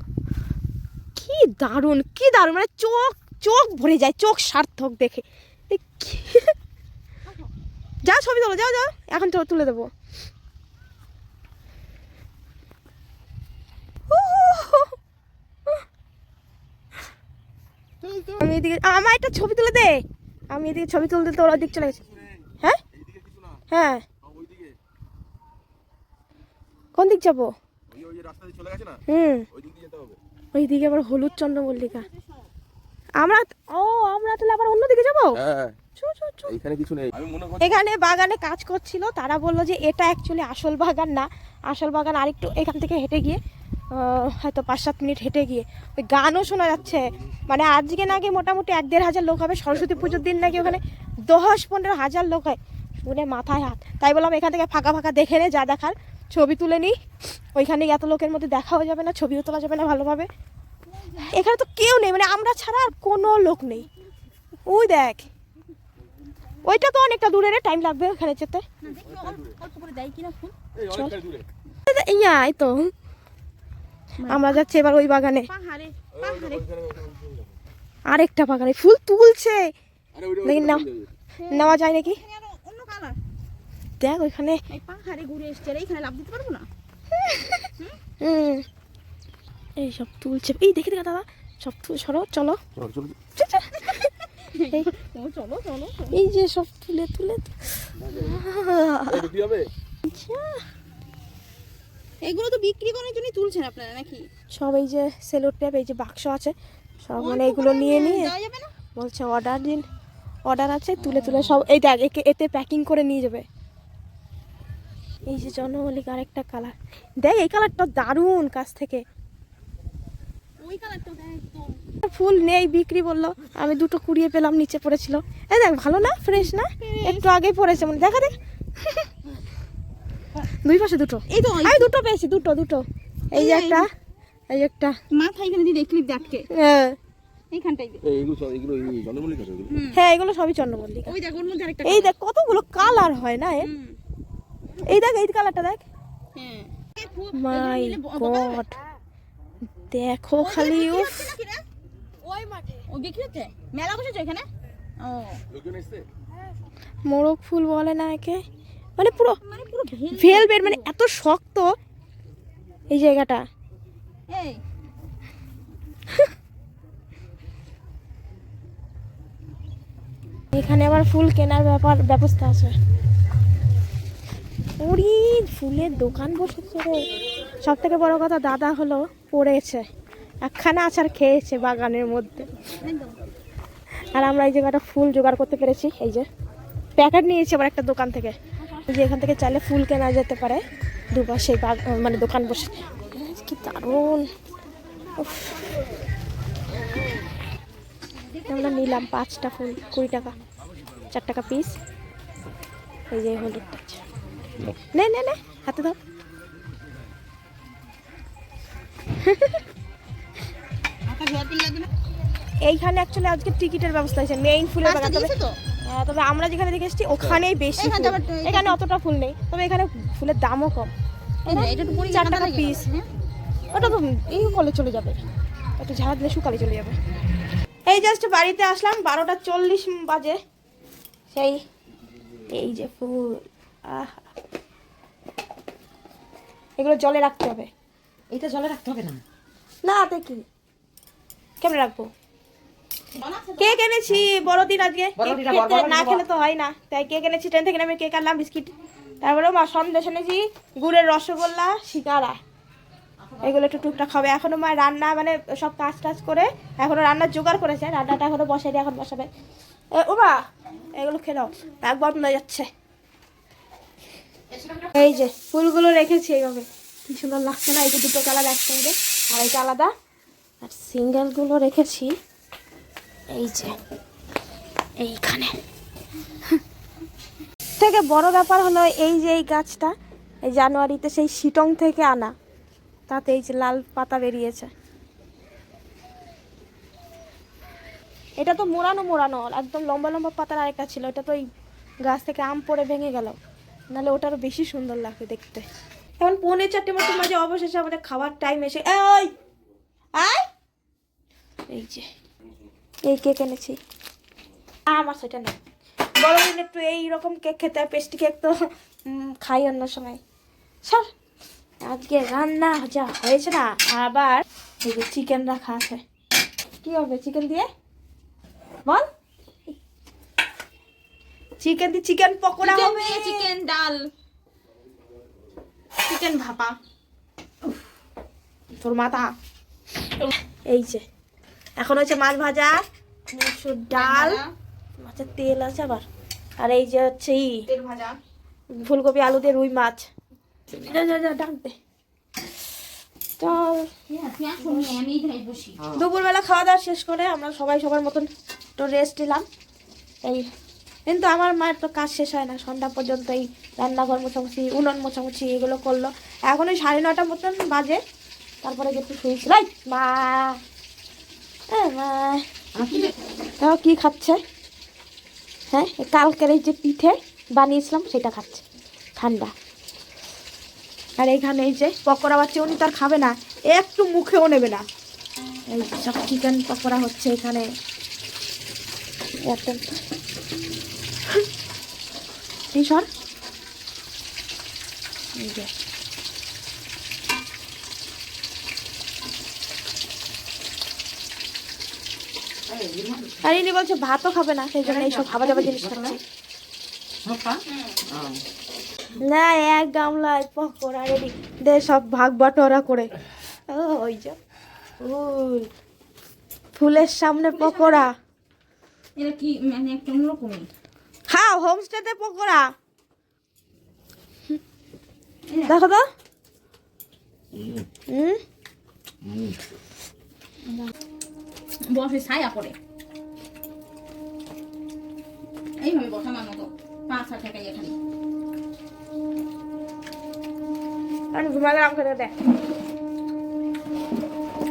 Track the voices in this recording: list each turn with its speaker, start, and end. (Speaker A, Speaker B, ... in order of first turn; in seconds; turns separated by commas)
Speaker A: 1.1-6.5, Speaker A: 8.0-9.9, Speaker A: 14.1-14.9, Speaker A: 18.4-22.0, Speaker B: 23.0-23.6, Speaker A: 23.7-24.0, Speaker B: 24.2-24.8, Speaker A: 26.9-27.5, Speaker B: 27.9-30.2, Speaker A: 29.1-29.4, Speaker A: 30.5-32.1, Speaker A: 33.2-35.4, Speaker B: 35.4-35.8, Speaker A: 36.0-36.5, Speaker B: 36.5-37.8, Speaker A: 37.6-43.4, Speaker A: 43.9-56.9, Speaker A: 57.5-60.3, Speaker C: 60.9-61.3, Speaker A: 61.2-63.9, Speaker A: 64.7-65.3, Speaker A: 66.6-68.6, Speaker C: 68.8-70.5, Speaker B: 70.7-71.5, Speaker A: 70.9-71.2, Speaker A: 71.9-72.9, Speaker C: 74.2-74.6, Speaker A: 74.2-75.5, Speaker C: 75.5-76.7, Speaker B: 76.2-77.6, Speaker A: 78.1-79.6, Speaker B: 80.1-81.1, Speaker A: 80.4-80.8, Speaker C: 81.4-83.2, Speaker A: 81.5-82.2, Speaker A: 84.0-84.6, Speaker C: 84.7-86.7, Speaker A: 87.1-87.7, Speaker A: 88.2-88.6, Speaker A: 89.8-92.6, Speaker B: 92.8-93.2, Speaker A: 93.3-94.9, Speaker C: 94.5-96.2, Speaker A: 96.1-99.3, Speaker B: 98.0-98.4, Speaker B: 99.1-99.7, Speaker A: 100.0-100.6, Speaker C: 102.2-104.3, Speaker A: 104.5-106.5, Speaker A: 107.0-108.3, Speaker C: 107.2-108.7, Speaker A: 108.9-109.8, Speaker A: 110.5-113.4, Speaker C: 111.0-111.6, Speaker A: 115.2-119.0, Speaker C: 120.6-121.8, Speaker A: 122.0-129.1, Speaker C: 126.5-127.3, Speaker A: 130.5-133.8, Speaker C: 131.3-131.9, Speaker C: 133.3-133.8, Speaker A: 134.5-134.9, Speaker C: 135.1-136.5, Speaker A: 136.5-137.0, Speaker C: 137.5-138.0, Speaker B: 138.0-139.7, Speaker C: 139.7-140.0, Speaker A: 139.9-141.1, Speaker C: 141.1-142.1, Speaker A: 141.8-143.7, Speaker C: 143.6-144.0, Speaker A: 144.8-145.8, Speaker C: 146.3-148.6, Speaker A: 147.3-148.8, Speaker A: 149.9-151.3, Speaker C: 150.4-151.6, Speaker C: 152.3-154.4, Speaker C: 155.0-155.4, Speaker B: 155.5-156.1, Speaker A: 157.1-158.4, Speaker A: 159.0-159.4, Speaker C: 159.4-160.9, Speaker A: 160.1-161.7, Speaker A: 162.9-163.4, Speaker C: 164.3-164.6, Speaker A: 170.5-172.7, Speaker A: 174.8-177.1, Speaker A: 177.6-179.8, Speaker A: 180.4-182.5, Speaker C: 182.5-183.2, Speaker A: 184.1-186.2, Speaker A: 187.0-188.3, Speaker A: 188.9-190.6, Speaker A: 191.1-194.3, Speaker A: 195.2-195.6, Speaker C: 198.3-199.1, Speaker A: 198.5-200.3, Speaker A: 201.1-201.7, Speaker A: 203.1-204.0, Speaker A: 204.9-206.0, Speaker A: 209.2-209.6, Speaker C: 211.0-211.9, Speaker A: 212.6-215.3, Speaker C: 214.8-215.6, Speaker A: 215.8-220.9, Speaker C: 217.8-218.8, Speaker C: 221.4-223.1, Speaker A: 221.5-222.8, Speaker A: 223.7-225.2, Speaker A: 225.8-226.9, Speaker A: 227.9-230.4, Speaker A: 231.3-231.6, Speaker A: 232.5-234.3, Speaker A: 236.8-237.7, Speaker D: 238.3-239.2, Speaker A: 239.8-240.4, Speaker A: 241.6-242.1, Speaker C: 243.1-243.8, Speaker A: 243.6-252.4, Speaker D: 245.2-246.2, Speaker C: 253.2-253.6, Speaker A: 253.4-259.3, Speaker A: 259.9-260.4, Speaker A: 261.0-262.7, Speaker C: 264.6-264.9, Speaker A: 264.8-269.9, Speaker A: 270.6-272.1, Speaker A: 273.3-273.7, Speaker A: 275.0-275.5, Speaker A: 277.8-279.9, Speaker A: 280.4-282.3, Speaker A: 283.1-284.7, Speaker A: 288.4-291.4, Speaker A: 292.0-293.4, Speaker A: 293.9-295.6, Speaker A: 296.2-299.3, Speaker A: 300.1-300.4, Speaker A: 301.7-302.1, Speaker A: 303.0-303.8, Speaker A: 304.9-305.5, Speaker A: 306.2-308.5, Speaker A: 309.1-310.2, Speaker A: 311.8-316.0, Speaker A: 316.8-317.6, Speaker A: 321.6-323.5, Speaker C: 322.6-324.1, Speaker C: 326.0-326.8, Speaker A: 328.8-329.3, Speaker A: 330.7-331.0, Speaker A: 331.8-334.4, Speaker C: 333.9-334.5, Speaker A: 335.0-336.0, Speaker A: 336.6-337.6, Speaker C: 337.7-338.2, Speaker A: 338.7-340.1, Speaker A: 340.7-341.7, Speaker A: 343.4-343.9, Speaker C: 344.1-345.8, Speaker A: 345.9-348.3, Speaker A: 348.8-349.4, Speaker A: 351.1-358.0, Speaker A: 358.6-360.6, Speaker A: 361.7-364.4, Speaker D: 362.8-363.1, Speaker A: 365.7-368.6, Speaker A: 369.2-369.5, Speaker A: 371.2-374.8, Speaker A: 375.7-377.6, Speaker A: 379.4-379.8, Speaker A: 382.7-383.1, Speaker A: 385.4-385.7, Speaker D: 392.7-393.5, Speaker A: 393.4-396.2, Speaker D: 394.8-396.1, Speaker D: 397.2-398.4, Speaker C: 397.7-398.0, Speaker A: 399.1-403.1, Speaker A: 403.7-404.4, Speaker A: 405.0-405.7, Speaker A: 406.8-408.1, Speaker C: 407.5-408.1, Speaker C: 409.2-410.7, Speaker A: 411.3-412.6, Speaker C: 415.5-415.7, Speaker A: 415.7-416.0, Speaker A: 418.1-418.4, Speaker C: 421.8-422.8, Speaker C: 425.8-427.9, Speaker A: 431.3-432.3